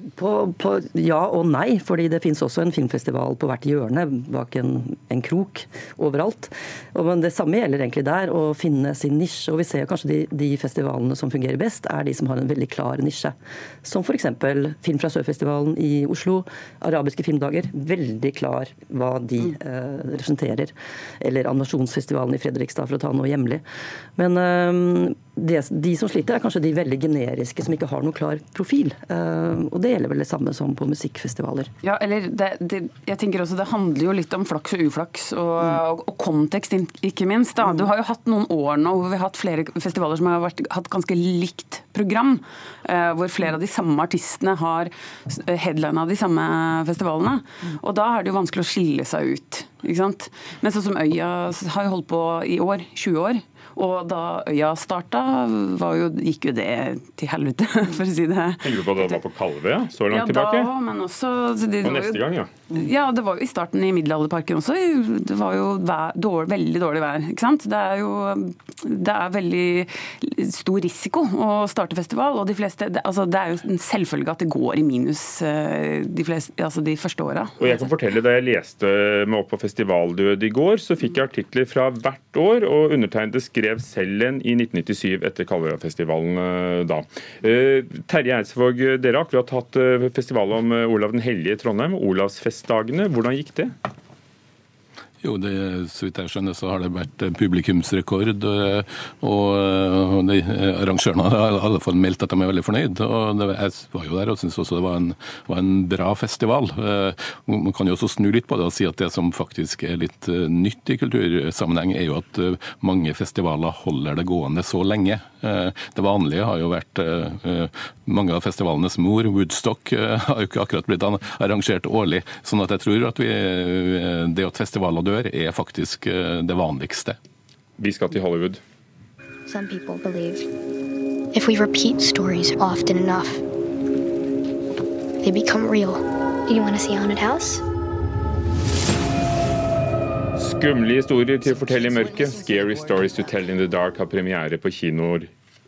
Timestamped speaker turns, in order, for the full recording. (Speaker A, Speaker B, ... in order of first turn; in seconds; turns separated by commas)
Speaker A: 0.1-23.6, Speaker A: 24.2-31.7, Speaker B: 31.8-59.1, Speaker C: 58.6-60.7, Speaker B: 60.1-62.2, Speaker C: 61.8-62.5, Speaker B: 62.8-77.6, Speaker C: 77.6-93.7, Speaker D: 95.2-127.2, Speaker C: 127.8-128.6, Speaker E: 129.5-130.4, Speaker E: 131.3-133.4, Speaker E: 135.2-137.6, Speaker C: 140.4-145.3